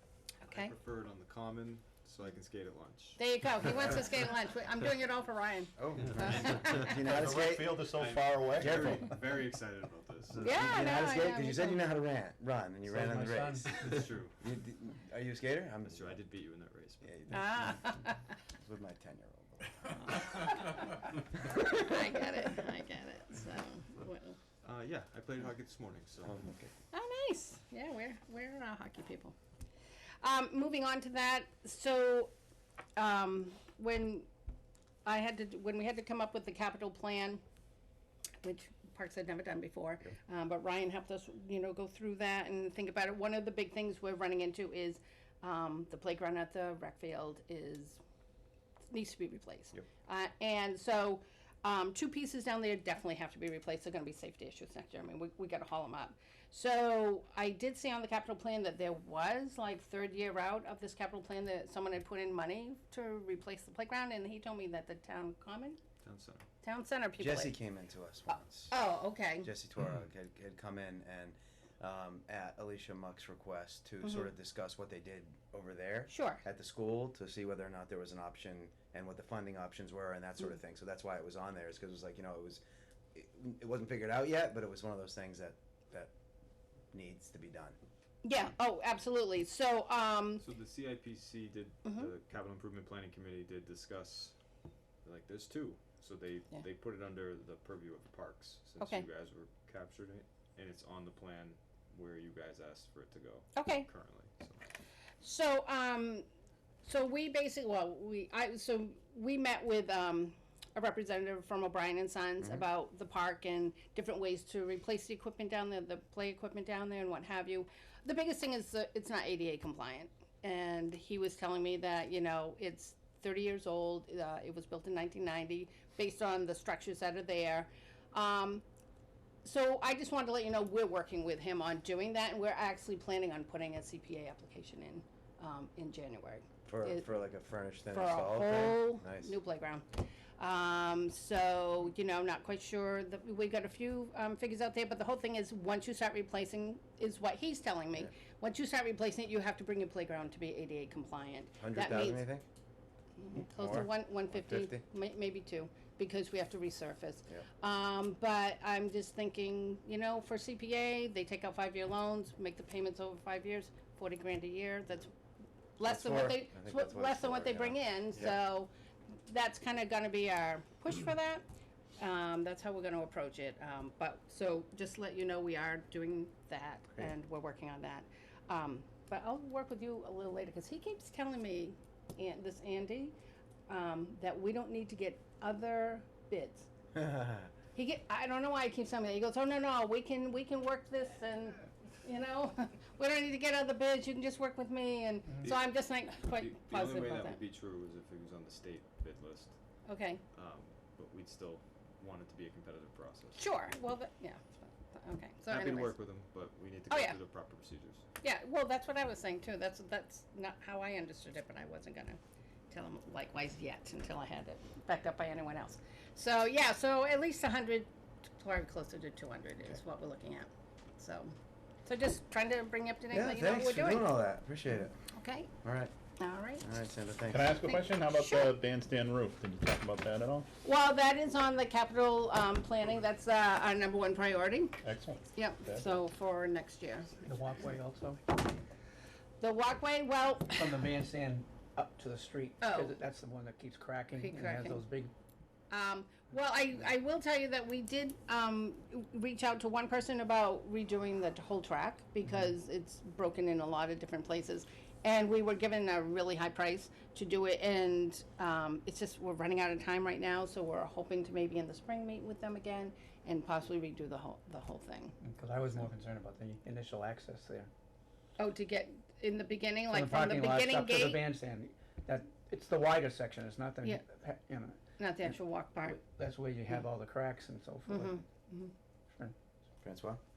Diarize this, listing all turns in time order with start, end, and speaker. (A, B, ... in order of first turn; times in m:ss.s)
0:00.4-0:00.7 A
0:00.4-0:04.1 B
0:03.2-0:06.9 A
0:05.8-0:07.9 C
0:06.0-0:07.1 B
0:07.0-0:09.1 D
0:07.8-0:10.5 B
0:08.6-0:09.0 C
0:10.4-0:12.0 A
0:10.4-0:16.2 C
0:12.9-0:14.0 E
0:13.7-0:14.4 B
0:15.9-0:17.2 B
0:17.0-0:20.7 C
0:17.3-0:18.3 A
0:21.4-0:22.0 C
0:21.5-0:24.4 A
0:24.6-0:26.5 B
0:26.3-0:26.7 C
0:26.9-0:29.3 A
0:30.2-0:32.3 A
0:33.0-0:34.3 A
0:35.0-0:37.4 A
0:38.4-0:48.0 A
0:48.9-1:05.8 A
1:06.0-1:06.4 B
1:06.6-1:07.6 A
1:07.2-1:08.8 C
1:08.7-1:09.5 A
1:09.4-1:22.6 C
1:14.0-1:14.3 A
1:16.1-1:16.4 A
1:23.1-1:26.1 C
1:26.9-1:27.8 C
1:28.2-1:30.4 A
1:30.4-1:34.3 B
1:31.8-1:32.1 A
1:35.0-1:44.6 B
1:38.8-1:39.0 A
1:43.6-1:43.9 A
1:45.2-1:46.2 A
1:46.8-2:08.6 A
2:09.4-2:17.1 A
2:16.7-2:19.4 C
2:17.9-2:19.8 A
2:20.4-2:32.2 A
2:31.6-2:32.4 C
2:33.2-2:45.1 A
2:33.4-2:34.8 C
2:45.8-2:48.7 A
2:45.8-2:48.3 C
2:49.3-2:51.4 A
2:52.0-3:03.2 A
3:03.7-3:06.7 A
3:06.9-3:07.5 C
3:07.8-3:17.4 A
3:15.4-3:19.6 B
3:19.8-3:20.2 A
3:20.3-3:23.4 B
3:23.4-3:26.0 A
3:25.5-3:28.0 B
3:26.9-3:27.2 A
3:28.2-3:32.2 A
3:32.7-3:41.3 A
3:41.8-3:44.1 A
3:43.1-3:44.9 C
3:45.1-3:45.5 A
3:45.6-3:45.9 C
3:46.2-3:46.7 A
3:46.6-3:47.5 C
3:47.3-3:50.5 D
3:47.6-3:48.5 A
3:50.6-3:54.8 A
3:54.8-3:55.9 D
3:55.3-3:57.1 A
3:57.2-3:57.8 B
3:57.2-3:58.2 E
3:59.4-4:00.7 A
4:00.5-4:05.1 E
4:02.6-4:03.0 A
4:04.2-4:04.8 A
4:05.7-4:25.2 A
4:25.2-4:27.7 E
4:28.4-4:31.2 A
4:29.9-4:38.2 E
4:35.0-4:36.0 A
4:37.9-4:38.7 A
4:39.8-4:40.2 C